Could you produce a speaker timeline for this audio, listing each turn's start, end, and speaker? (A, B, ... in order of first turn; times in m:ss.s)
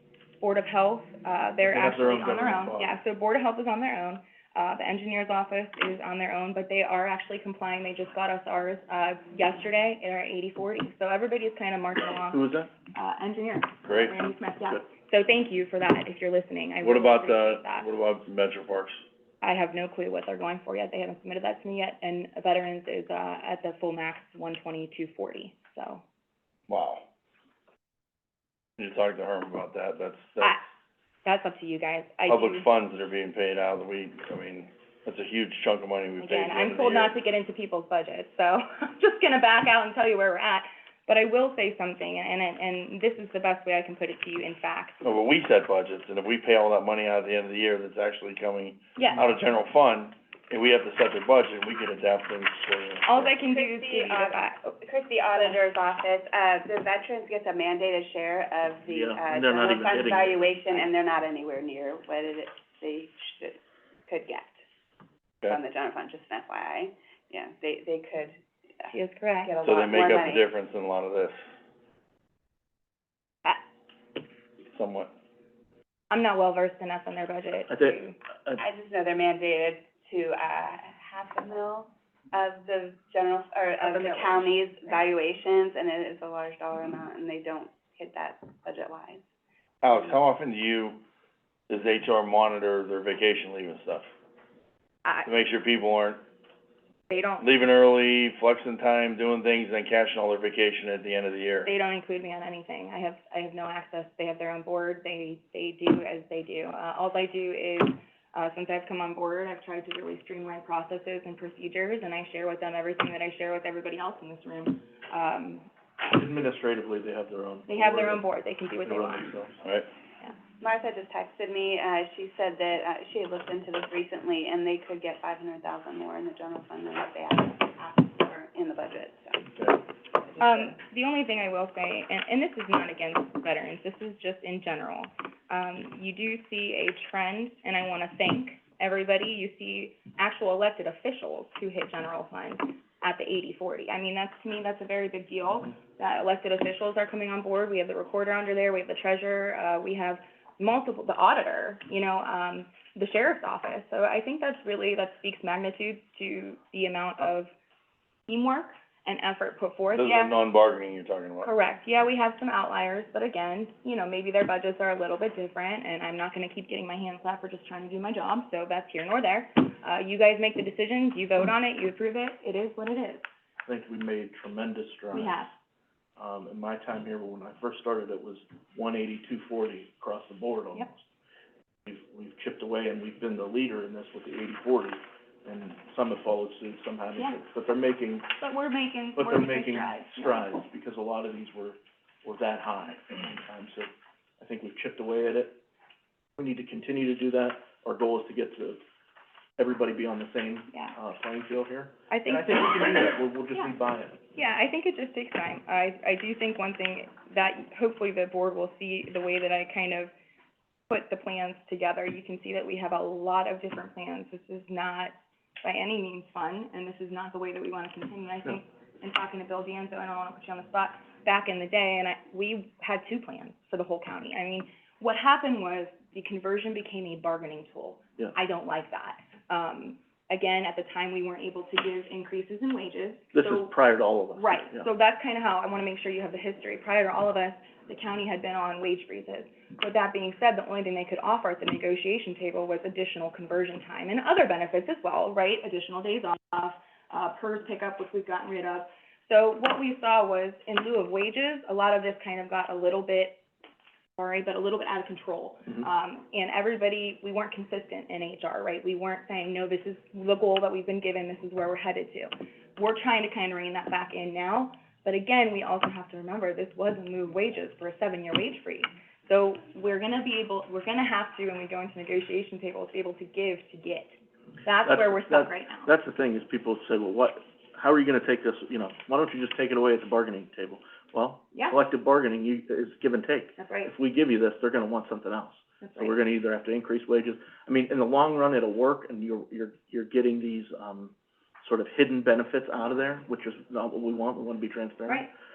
0:00.4-0:17.9 A
0:01.6-0:03.0 B
0:12.3-0:12.7 B
0:13.8-0:14.1 C
0:16.8-0:19.0 C
0:19.4-0:26.0 A
0:26.7-0:27.0 C
0:28.8-0:30.6 C
0:31.2-0:32.7 A
0:32.3-0:37.1 C
0:36.2-0:45.1 A
0:45.0-0:53.3 C
0:49.0-0:49.2 A
0:53.0-0:54.7 A
0:53.4-1:04.6 D
0:58.9-1:00.6 B
1:05.4-1:08.9 D
1:08.9-1:09.5 A
1:09.4-1:10.5 D
1:09.6-1:11.4 C
1:14.7-1:15.1 C
1:16.1-1:18.2 A
1:17.7-1:18.6 B
1:18.6-1:29.2 D
1:23.8-1:24.5 A
1:29.8-1:31.0 C
1:31.7-1:34.1 C
1:35.2-1:36.2 C
1:37.1-1:37.5 A
1:37.4-1:41.7 C
1:41.6-1:55.7 A
1:56.0-1:58.2 B
1:57.7-1:59.4 A
1:58.8-1:59.6 B
2:00.6-2:09.5 D
2:09.5-2:09.8 B
2:10.1-2:10.8 D
2:10.4-2:37.5 A
2:38.3-2:40.3 A
2:39.9-2:41.5 C
2:41.4-2:53.3 A
2:53.7-2:55.5 B
2:55.1-2:55.5 A
2:56.2-3:01.0 B
3:01.8-3:08.3 B
3:08.4-3:10.5 A
3:09.2-3:15.6 B
3:16.4-3:18.8 B
3:19.6-3:24.2 B
3:22.1-3:23.7 A
3:24.3-3:30.1 A
3:30.9-3:53.7 A
3:53.3-3:54.9 B
3:54.3-4:13.4 A
4:14.2-4:35.9 A
4:34.8-4:55.3 B
4:43.6-4:43.9 A
4:45.8-4:46.2 A